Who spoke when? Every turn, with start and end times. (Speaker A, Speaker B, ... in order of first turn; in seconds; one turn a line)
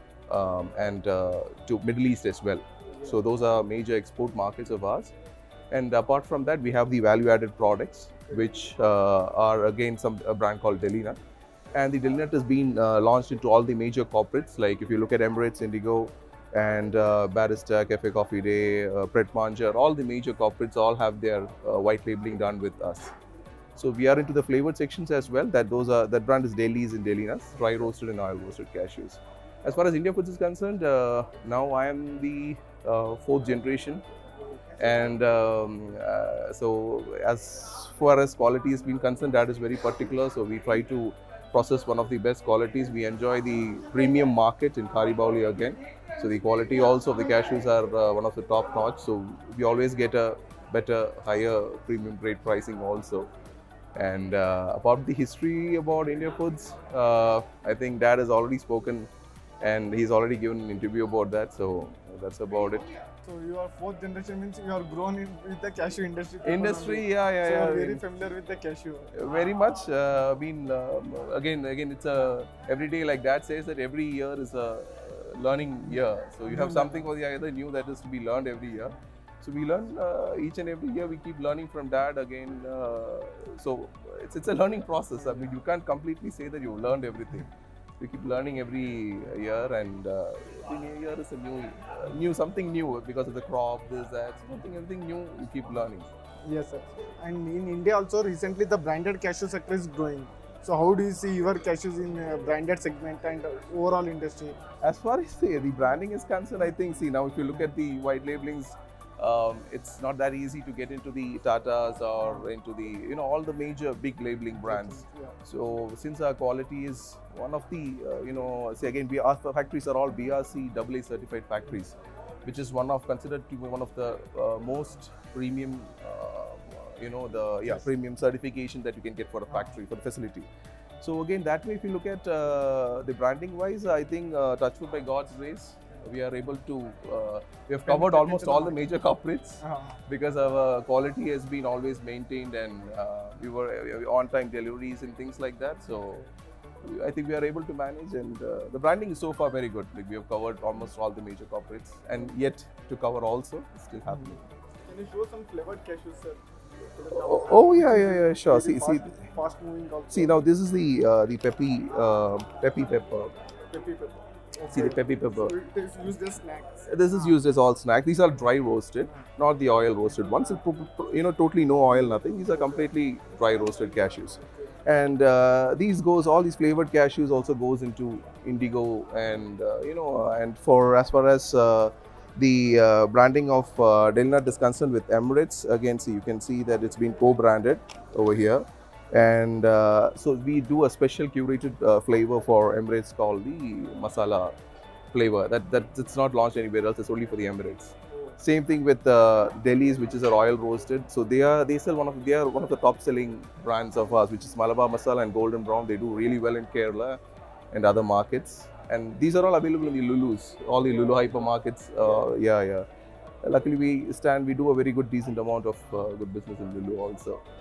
Speaker A: 0.3-5.1
Speaker A: 5.7-11.2
Speaker A: 11.7-23.1
Speaker A: 23.8-34.0
Speaker A: 34.8-53.3
Speaker A: 54.0-59.1
Speaker A: 59.6-62.9
Speaker B: 63.2-69.1
Speaker A: 66.4-68.0
Speaker A: 69.2-87.5
Speaker B: 76.5-76.9
Speaker A: 88.0-96.1
Speaker B: 96.5-104.6
Speaker A: 104.8-130.5
Speaker B: 114.7-115.4
Speaker A: 131.0-146.3
Speaker B: 137.9-138.8
Speaker B: 139.6-140.0
Speaker A: 146.8-154.4
Speaker B: 154.8-156.4
Speaker B: 156.9-160.5
Speaker A: 157.1-159.1
Speaker A: 160.1-163.3
Speaker B: 163.7-167.2
Speaker A: 164.7-165.5
Speaker A: 166.9-194.6
Speaker A: 195.1-207.2
Speaker A: 207.7-212.9
Speaker A: 213.4-217.4